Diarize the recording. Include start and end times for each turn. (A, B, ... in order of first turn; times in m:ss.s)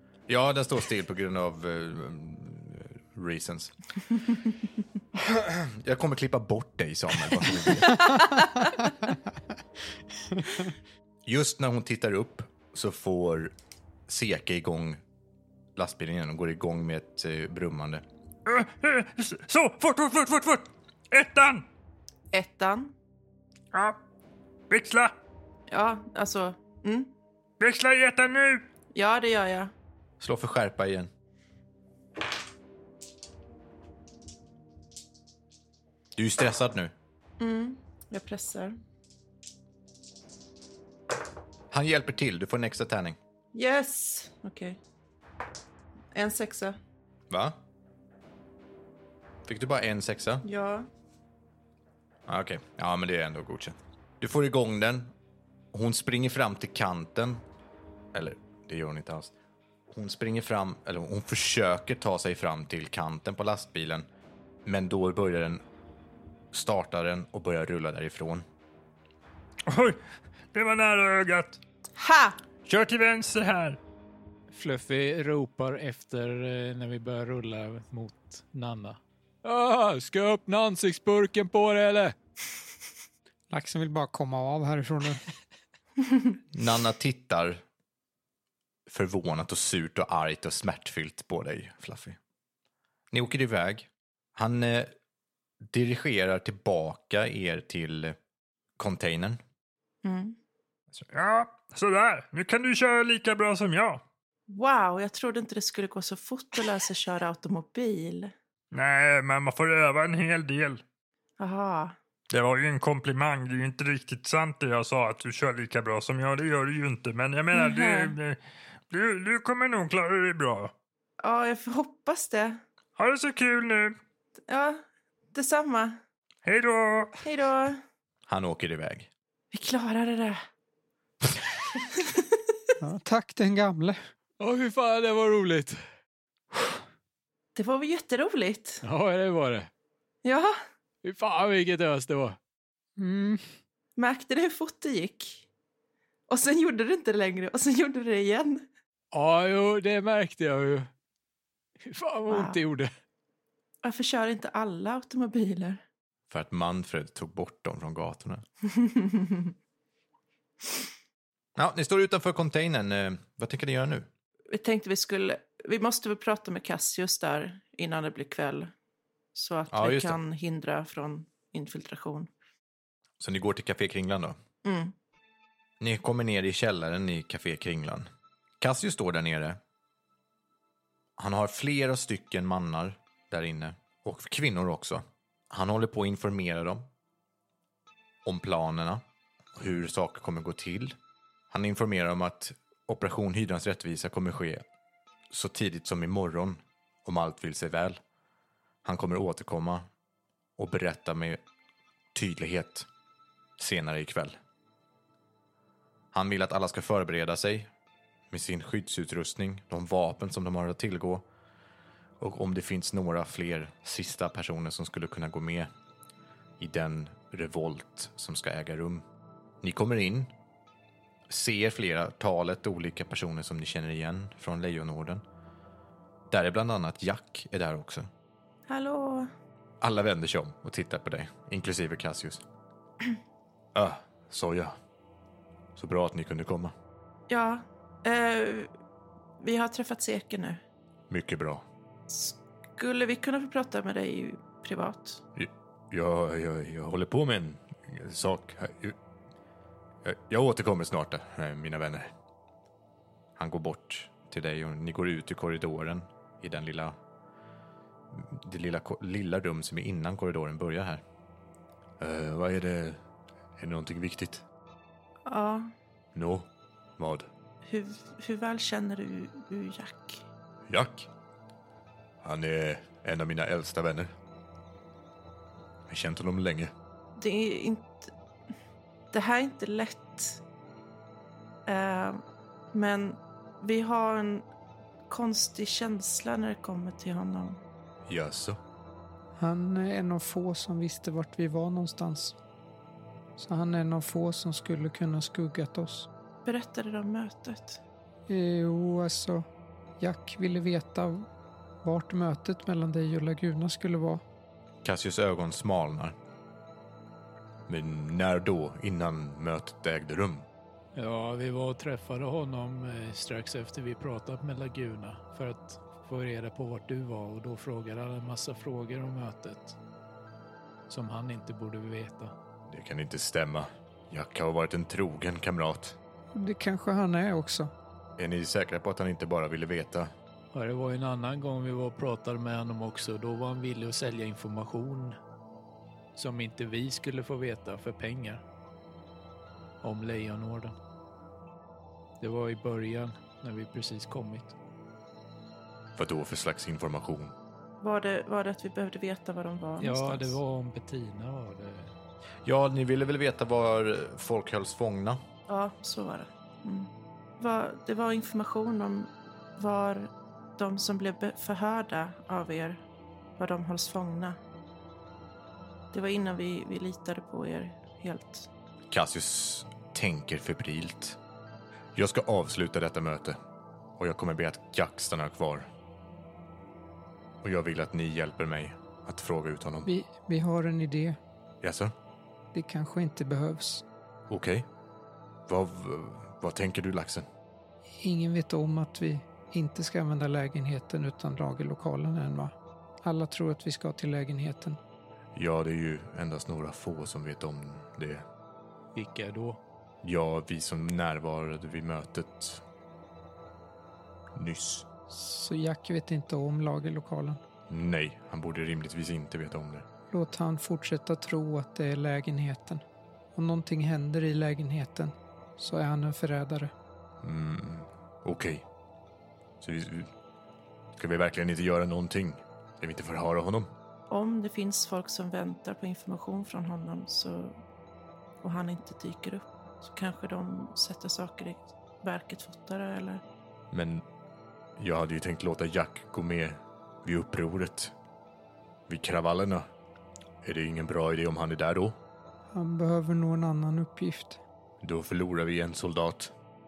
0:00.3-0:03.7 A
0:05.2-0:08.3 A
0:07.9-0:09.2 B
0:10.3-0:10.6 B
0:11.3-0:13.5 A
0:14.1-0:15.0 A
0:15.8-0:18.0 A
0:18.5-0:21.6 C
0:22.3-0:22.9 D
0:24.7-0:25.1 C
0:25.7-0:27.1 D
0:27.6-0:28.6 C
0:28.9-0:29.7 D
0:30.2-0:31.1 A
0:36.2-0:36.9 A
0:37.4-0:38.8 D
0:41.7-0:43.2 A
0:43.5-0:44.8 D
0:46.1-0:46.8 D
0:47.3-0:47.6 A
0:49.5-0:50.5 A
0:50.4-0:50.9 D
0:52.3-0:55.1 A
0:55.7-0:57.4 A
0:58.1-0:59.3 A
0:59.9-1:04.1 A
1:04.6-1:05.6 A
1:06.5-1:08.4 A
1:09.7-1:10.0 C
1:10.5-1:11.6 C
1:12.0-1:12.4 D
1:12.6-1:13.8 C
1:14.5-1:22.2 E
1:23.5-1:25.2 B
1:26.5-1:27.6 A
1:28.9-1:32.2 A
1:33.1-1:34.9 A
1:35.7-1:38.2 A
1:38.8-1:39.4 A
1:40.0-1:40.4 D
1:41.1-1:44.0 C
1:44.5-1:48.3 D
1:48.7-1:50.8 C
1:51.4-1:52.0 D
1:52.3-1:58.4 C
1:57.5-1:58.2 D
1:58.9-2:00.7 C
2:01.2-2:02.6 D
2:03.0-2:04.0 C
2:04.5-2:06.0 D
2:06.4-2:07.2 C
2:07.2-2:07.8 D
2:08.3-2:09.1 A
2:09.5-2:10.4 D
2:11.9-2:12.4 D
2:12.8-2:14.0 B
2:14.4-2:15.8 E
2:17.6-2:18.8 D
2:18.8-2:19.7 E
2:20.2-2:20.6 D
2:21.0-2:22.4 E
2:23.0-2:23.5 B
2:24.0-2:25.4 D
2:26.3-2:28.6 D
2:29.1-2:30.9 E
2:31.8-2:32.9 E
2:32.3-2:32.6 D
2:33.8-2:35.8 D
2:36.3-2:38.4 A
2:38.7-2:39.5 D
2:41.6-2:44.1 A
2:44.5-2:48.7 D
2:49.4-2:52.3 D
2:49.7-2:50.2 A
2:53.2-2:54.4 A
2:54.6-2:54.9 D
2:55.8-2:58.1 A
2:58.6-2:59.6 A
3:01.2-3:06.9 A
3:08.2-3:09.0 A
3:09.6-3:11.0 A
3:11.5-3:14.6 A
3:15.3-3:18.0 A
3:18.8-3:19.9 A
3:20.6-3:21.4 A
3:22.1-3:22.9 A
3:23.6-3:24.4 A
3:26.1-3:27.7 A
3:28.3-3:31.2 A
3:32.2-3:35.7 A
3:36.6-3:39.0 A
3:39.6-3:40.3 A
3:41.3-3:45.2 A
3:46.3-3:48.1 A
3:48.7-3:49.3 D
3:49.8-3:52.4 A
3:53.8-3:54.8 A
3:55.8-3:56.7 A
3:57.3-3:58.7 D
3:59.4-4:00.6 D
4:01.1-4:01.6 A
4:02.1-4:05.2 D
4:05.4-4:09.0 A
4:10.0-4:12.1 A
4:13.4-4:17.0 A
4:18.1-4:21.0 A
4:22.0-4:23.0 A
4:23.6-4:24.4 A
4:25.3-4:25.7 D
4:26.2-4:27.3 A
4:27.7-4:30.2 D
4:30.7-4:31.1 A
4:32.2-4:34.1 A
4:35.9-4:36.7 A
4:37.2-4:38.1 D
4:39.1-4:40.4 D
4:41.7-4:44.5 D
4:45.1-4:47.6 D
4:48.1-4:48.6 A
4:49.4-4:52.4 B
4:53.4-4:56.1 B
4:56.4-4:57.8 D
4:58.3-4:59.4 B
5:00.0-5:01.3 B
5:01.8-5:04.2 B
5:04.8-5:06.2 A
5:07.7-5:10.5 A
5:11.0-5:19.8 E
5:20.9-5:22.3 E
5:22.7-5:26.0 A
5:26.3-5:27.7 B
5:28.2-5:30.1 A
5:30.5-5:35.2 E
5:36.2-5:38.4 E
5:39.8-5:40.8 E
5:42.2-5:44.5 E
5:46.0-5:47.3 A
5:47.8-5:50.4 D
5:49.8-5:51.9 E
5:52.4-5:55.2 A
5:55.5-6:02.8 D
6:03.4-6:04.4 D
6:05.9-6:08.5 D
6:08.9-6:11.2 A
6:12.0-6:13.4 A
6:14.0-6:15.7 A
6:17.4-6:19.9 A
6:19.9-6:21.2 B
6:21.6-6:21.9 A
6:22.5-6:23.8 B
6:24.3-6:24.7 A
6:25.5-6:27.3 A
6:28.0-6:34.8 B
6:35.4-6:38.2 A
6:39.0-6:39.6 E
6:40.0-6:42.6 A
6:44.4-6:44.9 A
6:45.1-6:47.4 B
6:47.7-6:49.8 A
6:50.1-6:52.8 B
6:53.4-6:56.7 B
6:57.2-6:58.7 A
6:59.6-7:00.1 A
7:01.0-7:03.7 A
7:04.1-7:07.6 D
7:08.4-7:13.2 D
7:13.7-7:14.1 A
7:14.8-7:17.9 A
7:18.9-7:19.6 A
7:20.4-7:22.0 A
7:22.5-7:24.4 B
7:24.8-7:26.3 A